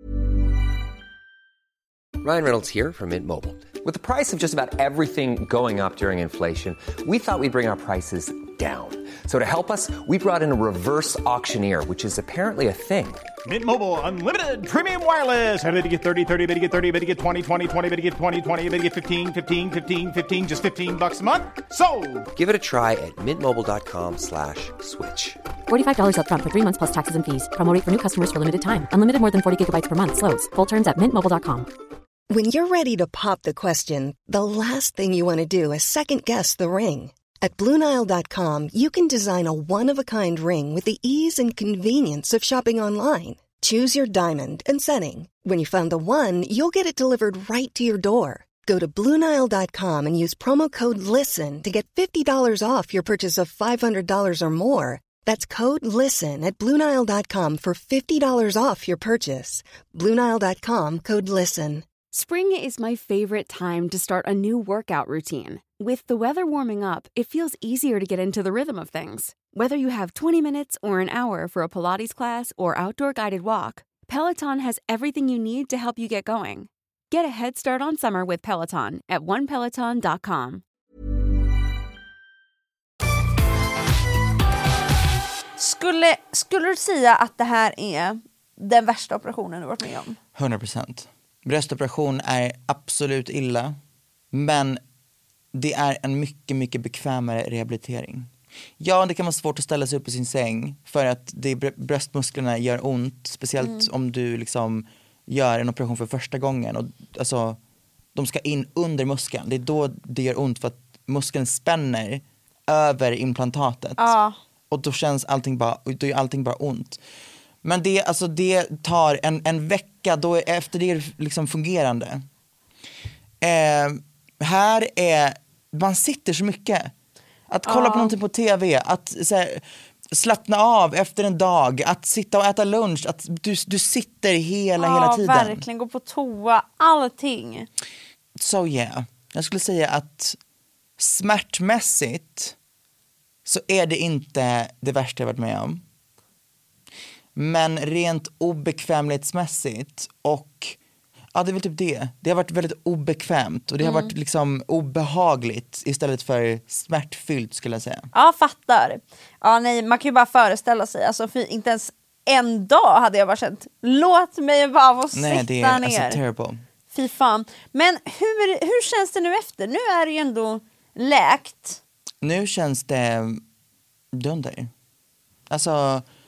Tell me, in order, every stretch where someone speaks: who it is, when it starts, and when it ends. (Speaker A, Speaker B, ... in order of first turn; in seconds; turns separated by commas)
Speaker A: 2.2-13.3, Speaker B: 13.4-22.3, Speaker A: 22.4-25.4, Speaker C: 25.7-31.7, Speaker D: 32.3-61.9, Speaker E: 62.1-80.6, Speaker F: 85.6-90.2, Speaker G: 90.3-93.8, Speaker G: 94.3-94.8, Speaker G: 95.5-107.6, Speaker F: 103.6-103.9, Speaker G: 108.2-114.2, Speaker F: 114.0-114.4, Speaker G: 114.7-117.0, Speaker G: 117.6-122.2, Speaker G: 123.4-126.9, Speaker G: 127.5-135.6, Speaker F: 127.7-128.1, Speaker F: 134.8-137.7, Speaker G: 138.4-140.4, Speaker G: 141.0-142.6, Speaker G: 143.5-145.8, Speaker G: 147.4-150.8, Speaker G: 151.3-158.1, Speaker F: 153.8-154.1, Speaker F: 158.1-166.2, Speaker G: 165.1-166.6, Speaker F: 166.9-171.8, Speaker G: 172.2-173.4, Speaker G: 174.1-174.7, Speaker G: 175.5-176.1